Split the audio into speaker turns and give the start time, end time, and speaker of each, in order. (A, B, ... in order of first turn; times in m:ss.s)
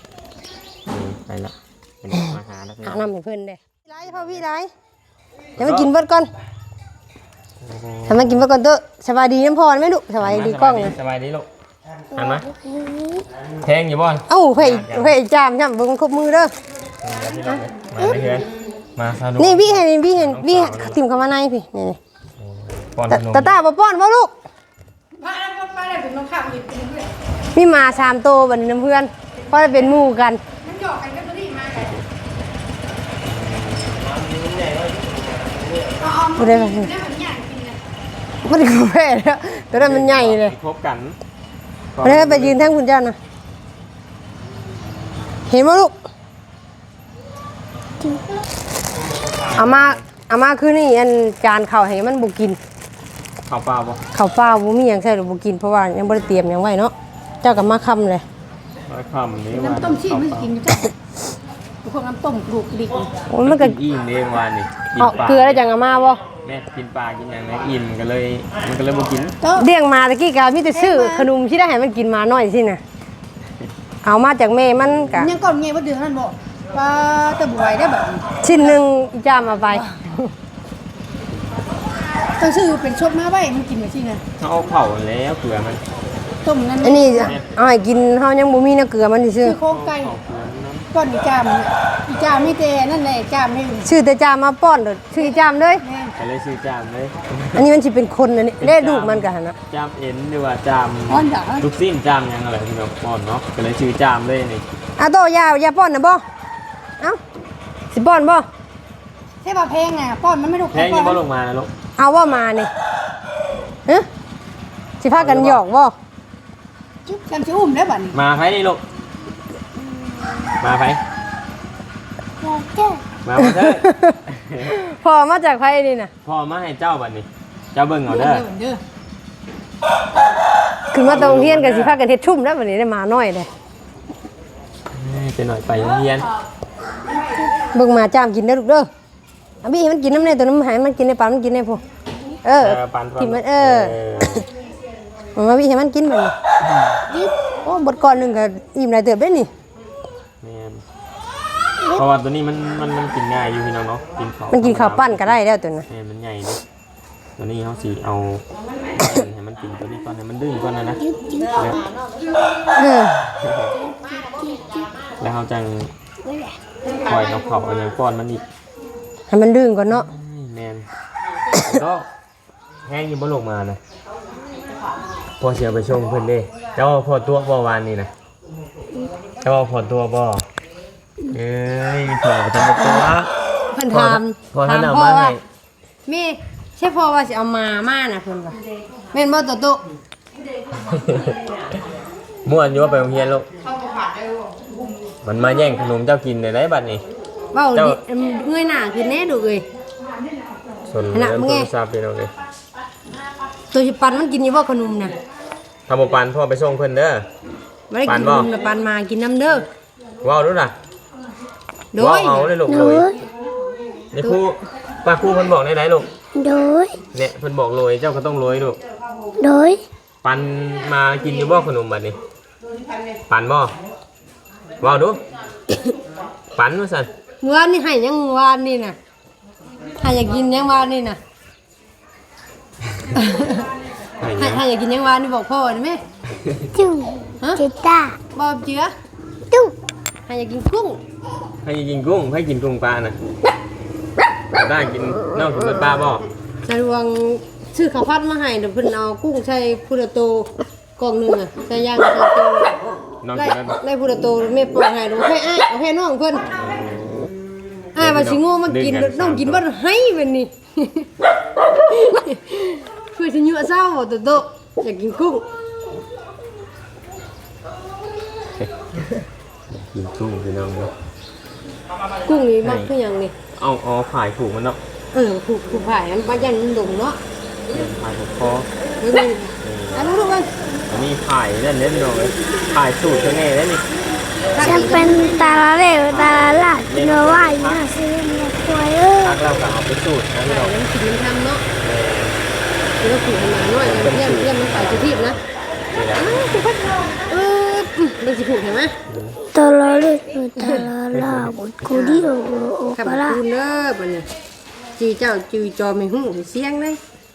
0:00.9-0:03.1 A
0:02.8-0:04.7 B
0:04.0-0:04.4 A
0:05.6-0:05.9 A
0:05.6-0:06.3 B
0:07.6-0:08.5 A
0:08.1-0:10.9 B
0:10.2-0:11.5 A
0:12.1-0:12.5 A
0:13.6-0:15.2 A
0:14.3-0:16.5 B
0:17.0-0:21.0 A
0:19.4-0:22.0 B
0:22.4-0:23.6 A
0:23.1-0:24.3 B
0:25.1-0:27.1 C
0:27.5-0:30.4 B
0:30.6-0:32.0 C
0:31.8-0:32.0 A
0:33.2-0:35.8 A
0:36.0-0:37.8 C
0:36.4-0:36.9 B
0:38.4-0:40.5 B
0:39.7-0:41.2 A
0:41.9-0:42.7 A
0:42.0-0:43.2 B
0:45.5-0:45.9 B
0:49.0-0:50.0 A
0:49.5-0:52.6 B
0:53.4-0:54.0 A
0:54.1-0:58.2 B
0:58.9-1:00.5 A
0:59.5-1:00.9 C
1:01.8-1:03.1 C
1:03.3-1:03.7 B
1:03.4-1:05.6 A
1:05.0-1:06.2 B
1:06.4-1:09.4 A
1:09.6-1:12.8 B
1:10.7-1:11.3 C
1:14.0-1:15.3 B
1:14.8-1:15.1 A
1:15.2-1:18.5 C
1:18.4-1:20.3 B
1:22.4-1:24.2 C
1:24.4-1:25.8 A
1:26.4-1:27.3 C
1:26.8-1:29.6 B
1:29.4-1:30.1 C
1:29.7-1:30.9 A
1:30.9-1:33.9 C
1:33.8-1:35.8 B
1:35.2-1:36.1 C
1:36.2-1:37.7 A
1:37.6-1:39.6 B
1:38.6-1:44.6 A
1:41.1-1:41.6 C
1:45.0-1:46.2 B
1:47.9-1:48.4 B
1:49.4-1:51.2 C
1:50.7-1:51.7 A
1:52.0-1:52.7 B
1:55.0-1:55.9 B
1:55.1-1:55.6 A
1:57.0-1:58.2 C
1:58.1-1:58.8 A
2:00.6-2:01.0 A
2:02.4-2:03.0 C
2:03.2-2:04.7 A
2:03.4-2:06.1 B
2:06.2-2:08.5 A
2:08.0-2:08.8 C
2:10.9-2:13.5 B
2:11.0-2:12.0 A
2:14.9-2:16.3 A
2:17.7-2:18.9 B
2:19.6-2:21.8 B
2:22.4-2:23.9 B
2:22.6-2:24.5 A
2:25.4-2:26.3 B
2:27.6-2:29.5 B
2:30.4-2:30.8 A
2:31.9-2:36.6 A
2:34.5-2:35.8 B
2:37.4-2:41.9 A
2:41.1-2:41.7 D
2:42.7-2:43.2 B
2:43.2-2:43.7 A
2:45.2-2:45.9 A
2:47.0-2:48.4 A
2:49.3-2:50.1 B
2:49.9-2:50.9 A
2:51.5-2:52.1 A
2:52.8-2:53.8 A
2:55.4-2:58.1 A
2:59.4-3:00.5 A
3:01.3-3:03.3 A
3:03.7-3:05.4 B
3:03.9-3:05.4 A
3:06.0-3:08.6 B
3:09.1-3:09.8 B
3:10.8-3:11.4 A
3:12.4-3:13.5 A
3:15.2-3:17.0 A
3:17.5-3:19.6 B
3:17.7-3:18.0 A
3:20.9-3:22.3 A
3:21.1-3:21.7 B
3:23.7-3:25.1 B
3:25.9-3:27.2 A
3:27.9-3:29.7 B
3:28.0-3:28.5 A
3:30.2-3:30.7 A
3:31.9-3:32.5 B
3:32.0-3:33.2 A
3:32.7-3:33.2 D
3:34.1-3:36.1 A
3:36.3-3:37.0 D
3:37.1-3:38.8 A
3:39.4-3:39.8 D
3:40.2-3:42.2 A
3:43.3-3:43.7 A
3:44.8-3:45.2 A
3:46.5-3:47.1 A
3:47.4-3:49.0 B
3:50.0-3:51.2 B
3:53.1-3:53.7 B
3:54.2-3:54.6 A
3:54.4-3:56.0 B
3:56.4-3:56.7 A
3:56.7-3:58.2 D
3:57.4-3:57.6 B
3:58.3-3:58.9 B
4:00.3-4:01.0 B
4:01.6-4:03.2 A
4:04.5-4:06.3 A
4:06.6-4:12.8 B
4:13.2-4:13.8 A
4:13.3-4:16.5 B
4:16.5-4:17.3 A
4:17.9-4:21.1 B
4:18.0-4:19.6 A
4:21.8-4:25.4 B
4:28.6-4:30.9 A
4:32.2-4:33.3 B
4:32.6-4:32.9 A
4:33.5-4:34.8 A
4:35.1-4:37.2 B
4:37.7-4:38.7 A
4:39.0-4:40.5 B
4:39.6-4:40.1 A
4:40.9-4:43.8 A
4:44.5-4:45.3 B
4:44.6-4:49.4 D
4:46.0-4:47.8 A
4:49.2-4:50.7 A
4:50.4-4:51.6 B
4:51.8-4:52.4 A
4:53.0-4:55.4 B
4:53.8-4:55.4 A
4:55.9-4:56.5 A
4:56.2-4:58.9 B
4:59.1-4:59.4 A
4:59.5-5:03.4 D
5:00.6-5:00.9 B
5:01.1-5:01.6 A
5:01.8-5:02.2 B
5:02.9-5:04.2 B
5:05.0-5:07.0 B